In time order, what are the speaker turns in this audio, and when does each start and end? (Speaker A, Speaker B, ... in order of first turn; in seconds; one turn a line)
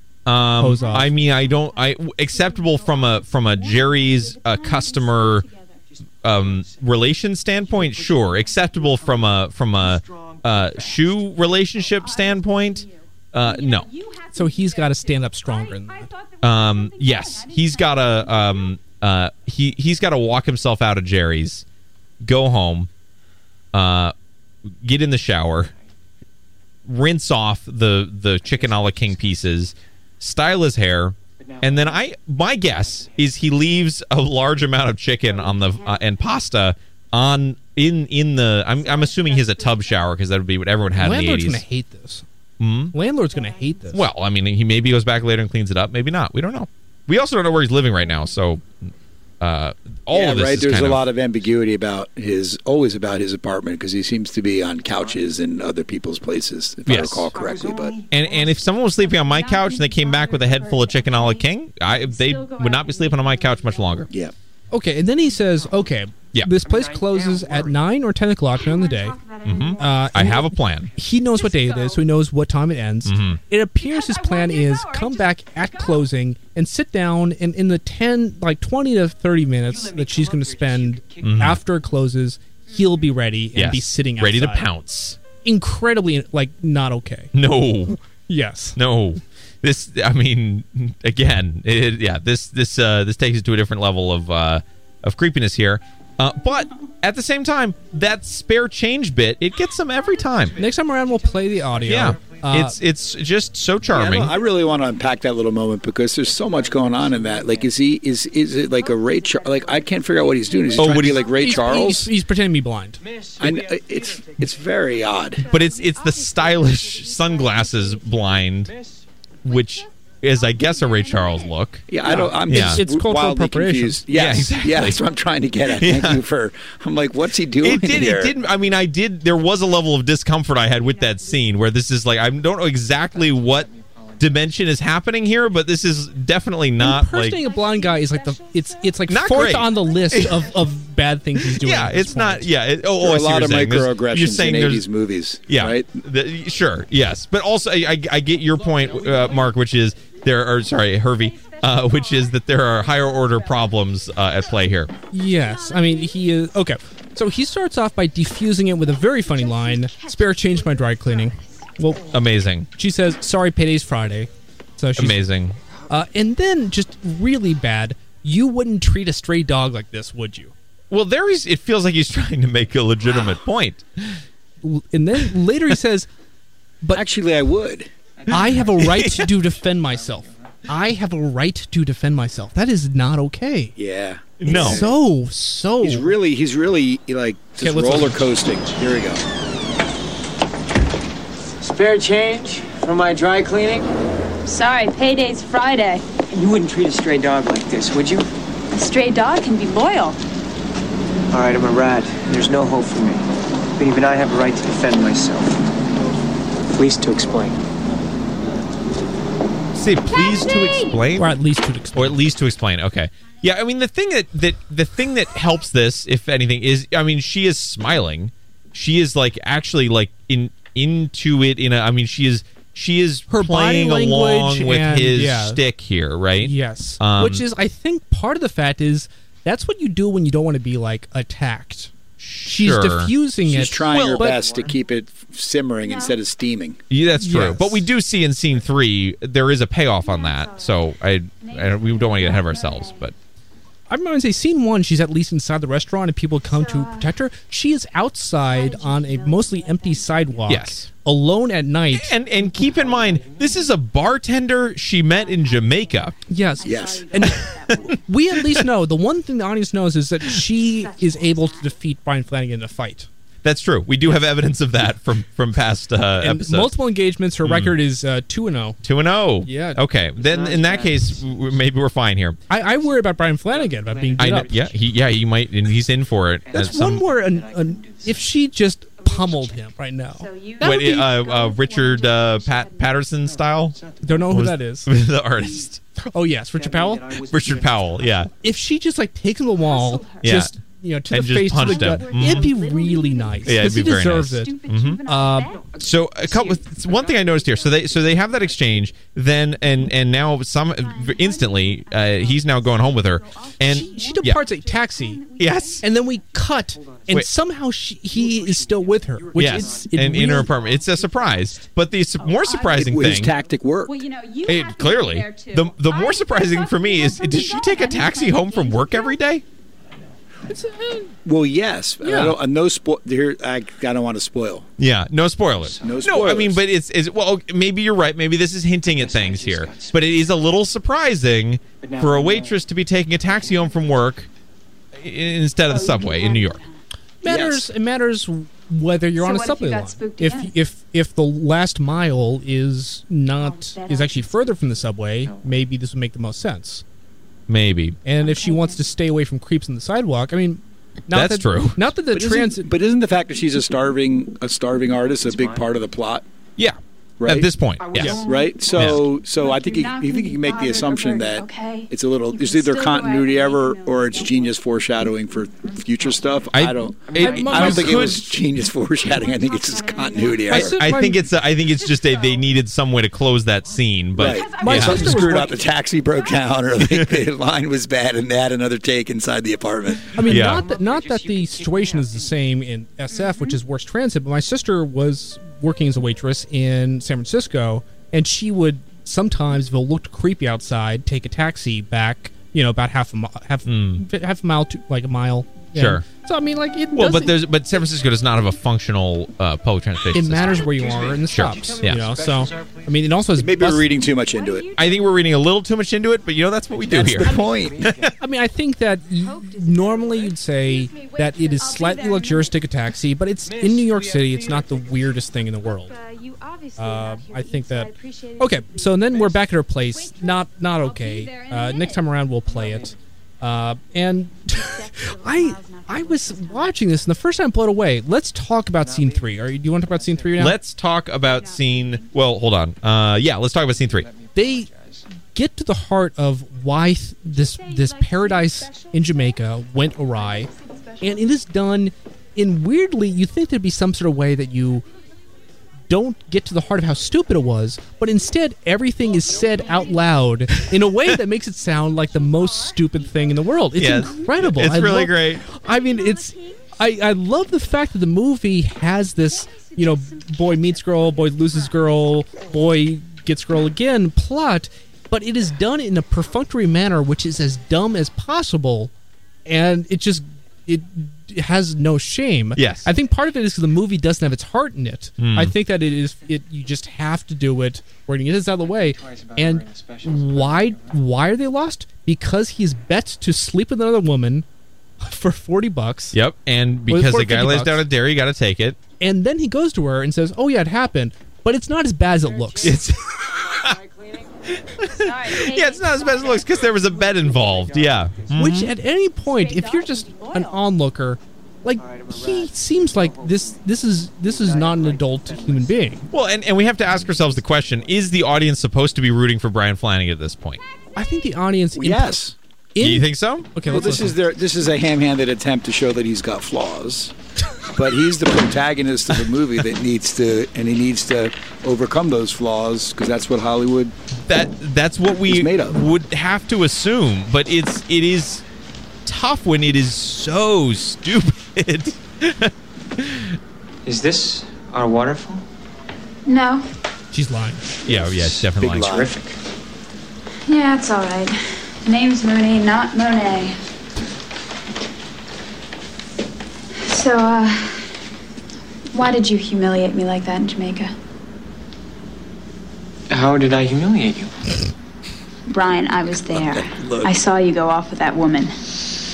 Speaker A: 0.3-5.5
Speaker B: 0.6-1.2
Speaker C: 0.6-5.8
Speaker D: 6.2-11.8
Speaker A: 6.2-13.9
Speaker C: 11.9-18.8
Speaker B: 14.3-16.1
Speaker A: 16.4-21.6
Speaker A: 22.2-22.9
Speaker A: 23.7-24.1
Speaker A: 24.8-25.7
Speaker A: 26.9-41.6
Speaker D: 28.4-29.4
Speaker D: 31.4-32.0
Speaker D: 32.6-33.6
Speaker C: 35.2-36.2
Speaker C: 38.7-40.1
Speaker B: 41.0-42.2
Speaker A: 42.6-43.0
Speaker B: 42.9-44.1
Speaker C: 43.2-43.9
Speaker A: 43.9-48.8
Speaker A: 49.4-51.0
Speaker E: 50.1-58.0
Speaker D: 54.8-55.2
Speaker A: 56.9-57.3
Speaker D: 57.3-58.7
Speaker A: 58.1-64.1
Speaker C: 59.0-64.1
Speaker B: 64.7-69.2
Speaker D: 66.5-67.8
Speaker C: 68.5-70.5
Speaker A: 69.4-70.9
Speaker B: 69.8-84.7
Speaker C: 71.1-72.2
Speaker A: 73.0-73.4
Speaker C: 73.8-76.1
Speaker D: 79.5-81.5
Speaker A: 81.2-81.6
Speaker C: 82.7-83.1
Speaker A: 83.5-85.2
Speaker B: 85.4-87.3
Speaker A: 87.3-88.0
Speaker B: 88.1-88.8
Speaker A: 88.8-100.6
Speaker D: 100.5-102.4
Speaker B: 100.6-102.8
Speaker A: 101.8-104.3
Speaker E: 103.9-112.1
Speaker D: 106.2-107.8
Speaker D: 108.7-110.8
Speaker A: 110.8-111.3
Speaker B: 110.8-113.0
Speaker D: 113.1-114.3
Speaker E: 113.4-115.4
Speaker C: 115.4-118.6
Speaker A: 115.4-118.7
Speaker C: 119.5-121.6
Speaker A: 119.5-121.9
Speaker E: 121.9-128.4
Speaker B: 122.0-124.2
Speaker A: 122.5-122.8
Speaker A: 124.1-125.0
Speaker A: 125.8-126.2
Speaker A: 127.6-133.7
Speaker C: 130.8-131.5
Speaker D: 133.1-134.5
Speaker A: 134.2-137.4
Speaker B: 136.8-142.5
Speaker C: 137.2-140.3
Speaker A: 139.1-140.5
Speaker A: 141.4-144.9
Speaker E: 143.0-145.9
Speaker A: 145.5-154.9
Speaker D: 148.9-149.1
Speaker C: 151.2-153.8
Speaker B: 155.1-162.1
Speaker C: 155.2-156.3
Speaker C: 158.9-161.4
Speaker A: 162.1-162.7
Speaker B: 162.8-165.2
Speaker A: 165.0-165.6
Speaker B: 165.9-170.5
Speaker A: 170.9-174.2
Speaker B: 174.6-176.1
Speaker E: 176.9-177.9
Speaker B: 178.3-183.8
Speaker A: 178.7-179.3
Speaker D: 179.8-180.3
Speaker E: 183.8-185.0
Speaker A: 184.4-184.8
Speaker B: 184.5-186.2
Speaker E: 185.8-189.2
Speaker B: 187.6-188.3
Speaker D: 191.6-193.9
Speaker C: 194.5-196.1
Speaker D: 196.3-198.3
Speaker C: 198.7-200.2
Speaker D: 201.3-205.7
Speaker D: 206.7-207.6
Speaker A: 209.8-211.4
Speaker B: 211.2-212.2
Speaker A: 211.9-227.5
Speaker B: 223.3-225.6
Speaker B: 226.4-231.9
Speaker A: 232.2-233.1
Speaker B: 232.4-234.4
Speaker E: 233.5-236.8
Speaker A: 233.9-234.3
Speaker D: 233.9-234.8
Speaker C: 235.8-236.2
Speaker A: 236.9-243.1
Speaker B: 237.2-237.8
Speaker C: 240.0-243.1
Speaker B: 243.9-252.2
Speaker C: 246.4-247.2
Speaker C: 248.4-250.6
Speaker A: 250.5-250.9
Speaker A: 251.9-256.2
Speaker D: 252.4-253.7
Speaker C: 255.1-258.0
Speaker B: 256.3-263.1
Speaker E: 256.6-257.1
Speaker A: 257.4-257.8
Speaker A: 258.4-258.6
Speaker C: 260.6-261.8
Speaker A: 263.4-266.8
Speaker B: 266.2-268.8
Speaker A: 267.4-267.8
Speaker A: 268.8-272.4
Speaker B: 269.4-269.8
Speaker D: 270.2-271.2
Speaker B: 272.5-274.5
Speaker D: 273.5-275.0
Speaker A: 274.2-277.1
Speaker D: 276.5-278.3
Speaker B: 276.6-281.0
Speaker C: 279.0-279.6
Speaker C: 280.1-283.0
Speaker A: 280.6-283.8
Speaker D: 283.2-284.3
Speaker B: 284.0-284.9
Speaker A: 284.3-285.8
Speaker D: 285.4-285.7
Speaker B: 286.0-287.1
Speaker D: 286.5-288.3
Speaker A: 287.3-288.3
Speaker B: 288.4-294.5
Speaker C: 289.6-290.4
Speaker A: 290.2-290.5
Speaker A: 291.1-292.5
Speaker C: 291.6-295.7
Speaker A: 293.4-295.0
Speaker B: 295.1-295.5
Speaker D: 295.5-299.0
Speaker A: 295.8-304.4
Speaker C: 300.7-306.1
Speaker B: 303.6-305.2
Speaker A: 305.4-305.8
Speaker B: 305.8-310.5
Speaker D: 306.6-307.2
Speaker D: 308.0-311.3
Speaker A: 309.4-313.3
Speaker C: 312.2-313.2
Speaker E: 312.7-314.0
Speaker C: 313.9-319.2
Speaker A: 314.5-319.4
Speaker B: 320.5-321.1
Speaker E: 321.2-324.7
Speaker B: 322.0-322.4
Speaker A: 324.8-334.3
Speaker D: 325.6-326.1
Speaker E: 325.8-326.6
Speaker D: 328.8-330.5
Speaker D: 331.8-332.6
Speaker D: 333.2-334.0
Speaker A: 335.0-336.6
Speaker C: 335.7-336.8
Speaker B: 337.2-346.8
Speaker E: 337.2-337.7
Speaker C: 339.2-340.5
Speaker C: 343.4-344.6
Speaker D: 345.2-345.6
Speaker A: 347.5-348.0
Speaker B: 348.1-352.7
Speaker C: 348.1-348.8
Speaker A: 351.1-351.9
Speaker E: 352.1-356.2
Speaker D: 355.2-355.7
Speaker A: 356.6-358.2
Speaker E: 357.2-357.5
Speaker D: 357.8-358.7
Speaker E: 358.2-370.8
Speaker C: 358.3-364.6
Speaker A: 358.7-359.0
Speaker D: 365.6-366.2
Speaker A: 366.5-368.3
Speaker D: 367.1-367.6
Speaker B: 367.2-368.1
Speaker C: 369.0-372.5
Speaker B: 370.5-371.2
Speaker A: 370.5-375.2
Speaker D: 373.6-373.9
Speaker E: 374.2-380.2
Speaker C: 374.2-376.6
Speaker B: 374.6-375.6
Speaker A: 376.9-377.2
Speaker B: 380.1-397.4
Speaker A: 380.3-380.7
Speaker D: 380.3-382.4
Speaker C: 383.1-383.6
Speaker A: 393.6-394.0
Speaker A: 395.8-396.1
Speaker A: 396.9-400.6
Speaker B: 400.1-403.9
Speaker D: 400.5-403.1
Speaker A: 401.3-402.1
Speaker E: 403.4-404.7
Speaker C: 404.2-405.4
Speaker A: 404.8-408.1
Speaker E: 406.9-407.9
Speaker D: 406.9-408.1
Speaker B: 408.2-416.0
Speaker C: 409.2-412.6
Speaker D: 413.4-415.0
Speaker C: 415.6-419.3
Speaker B: 416.8-430.6
Speaker D: 419.1-419.4
Speaker C: 419.8-422.1
Speaker D: 422.5-422.9
Speaker C: 424.5-427.0
Speaker D: 428.8-430.5
Speaker A: 430.4-434.1
Speaker C: 431.2-432.1
Speaker D: 433.7-435.0
Speaker B: 434.4-434.7
Speaker B: 435.3-444.9
Speaker C: 437.3-439.4
Speaker C: 440.0-441.4
Speaker B: 445.9-468.9
Speaker C: 449.1-450.1
Speaker C: 451.9-454.4
Speaker A: 453.8-455.5
Speaker C: 455.4-456.8
Speaker C: 459.2-462.1
Speaker B: 469.5-484.5
Speaker A: 472.6-472.9
Speaker A: 475.2-475.5
Speaker D: 478.6-481.0
Speaker B: 485.0-486.2
Speaker A: 486.1-488.8
Speaker B: 486.9-487.8
Speaker B: 489.0-492.8
Speaker D: 492.1-494.4
Speaker A: 492.6-493.8
Speaker A: 494.7-498.7
Speaker C: 495.0-496.6
Speaker D: 496.4-498.4
Speaker B: 498.4-506.1
Speaker C: 499.2-500.6
Speaker D: 501.8-506.0
Speaker A: 506.1-510.6
Speaker D: 506.8-508.1
Speaker B: 511.0-512.2
Speaker E: 511.8-512.4
Speaker B: 512.8-514.2
Speaker A: 512.8-513.5
Speaker E: 513.7-517.1
Speaker E: 517.8-523.9
Speaker A: 524.3-528.4
Speaker E: 525.3-525.8
Speaker A: 529.1-533.4
Speaker D: 533.9-535.4
Speaker C: 536.3-536.7
Speaker B: 537.1-537.7
Speaker E: 537.9-539.1
Speaker A: 537.9-539.0
Speaker D: 538.7-539.4
Speaker C: 540.5-543.6
Speaker C: 546.8-547.9
Speaker C: 548.9-550.9
Speaker D: 553.1-554.3
Speaker C: 555.5-558.6
Speaker E: 556.3-557.1